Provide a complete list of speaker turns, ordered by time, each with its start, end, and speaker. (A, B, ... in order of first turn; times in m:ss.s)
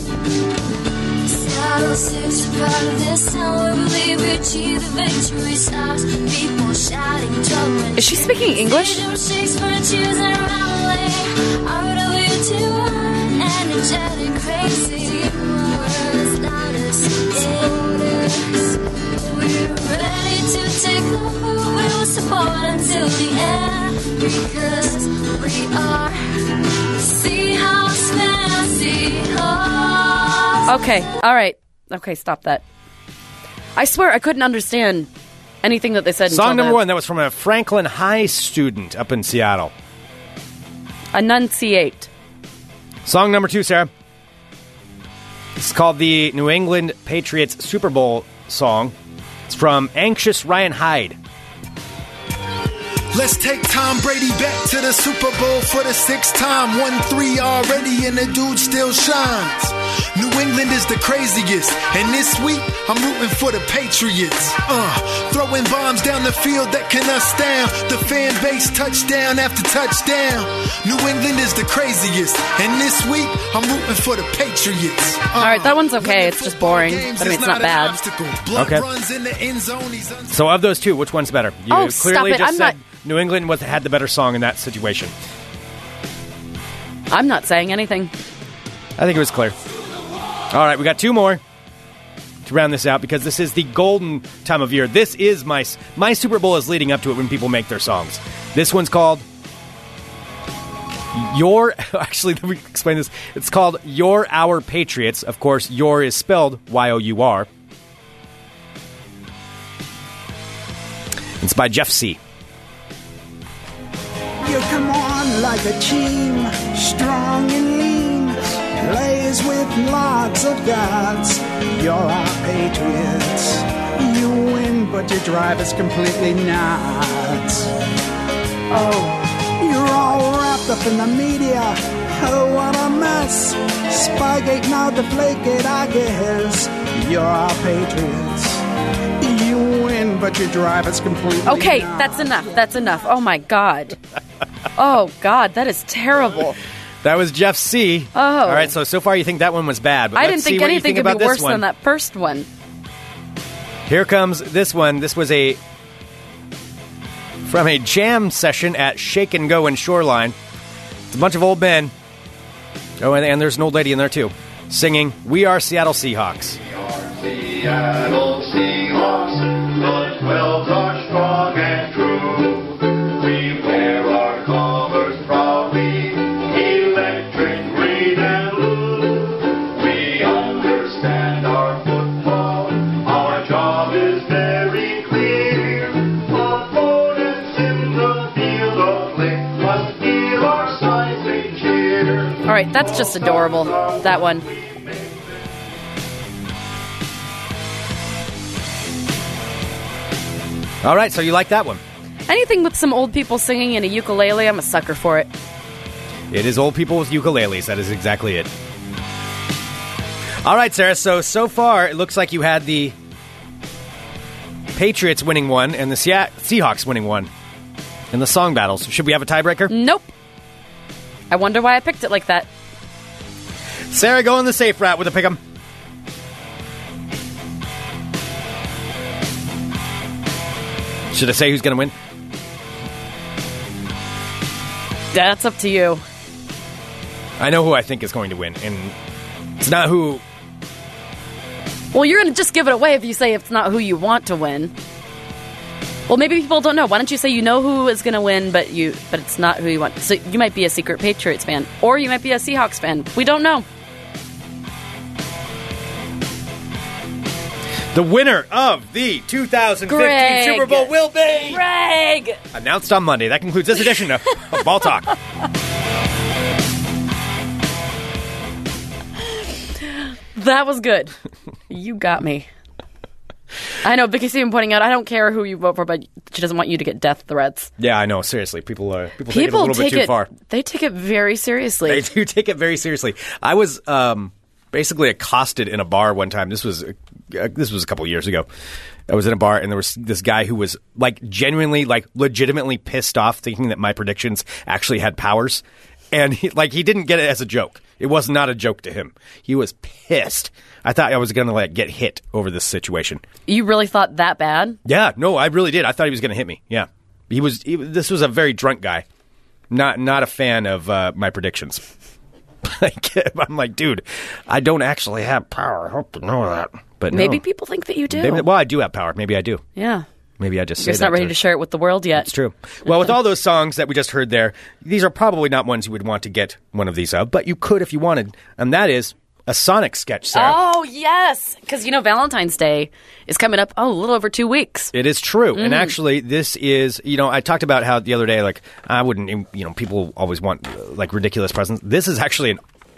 0:01.2-0:30.9 A
0:08.0-0:09.0 B
0:30.7-0:32.6 B
0:33.8-0:35.1 B
0:35.6-0:36.8 B
0:36.3-0:39.7 C
0:41.1-0:42.1 B
0:43.0-0:43.9 C
0:45.6-0:48.9 C
0:49.5-0:51.2 C
0:53.1-1:20.4 D
1:15.4-1:18.0 B
1:18.5-1:18.8 C
1:20.3-1:25.1 C
1:21.7-1:22.8 B
1:27.1-1:28.1 B
1:29.0-1:29.6 C
1:30.5-1:31.4 C
1:32.4-1:39.2 C
1:41.1-1:47.5 C
1:51.4-1:52.2 C
1:54.4-2:07.8 E
2:08.7-2:09.2 B
2:09.6-2:18.6 E
2:19.2-2:22.4 E
2:21.4-2:24.0 B
2:24.8-2:26.6 B
2:27.0-2:31.6 C
2:28.1-2:28.7 B
2:30.2-2:32.5 B
2:33.9-2:35.6 C
2:37.4-2:40.4 C
2:41.1-2:41.9 C
2:43.0-2:46.6 C
2:46.7-3:15.4 F
3:12.4-3:14.4 B
3:20.8-3:21.8 C
3:22.3-3:25.3 B
3:26.3-3:28.5 C
3:30.4-3:32.9 C
3:34.7-3:37.3 C
3:38.1-3:39.7 C
3:39.7-3:40.1 B
3:41.3-3:42.5 B
3:43.9-3:45.4 C
3:51.1-3:51.9 C
3:55.1-3:56.0 B
3:57.4-3:58.9 C
3:59.6-4:00.2 C
4:01.9-4:04.7 B
4:06.1-4:13.6 B
4:17.9-4:21.6 C
4:19.9-4:20.9 B
4:21.4-4:22.4 B
4:22.5-4:25.1 C
4:30.3-4:31.1 B
4:31.7-4:32.5 B
4:33.8-4:37.7 B
4:37.8-4:40.3 C
4:39.3-4:42.0 B
4:41.9-4:48.5 C
4:49.1-5:03.2 C
5:03.5-5:04.8 B
5:04.8-5:09.0 C
5:09.7-5:11.8 C
5:12.6-5:17.4 C
5:17.1-5:18.5 B
5:18.1-5:19.6 C
5:19.8-5:20.0 B
5:20.4-5:21.4 C
5:20.8-5:22.3 B
5:22.2-5:30.6 C
5:30.3-5:34.9 B
5:34.9-5:42.6 C
5:35.5-5:35.9 B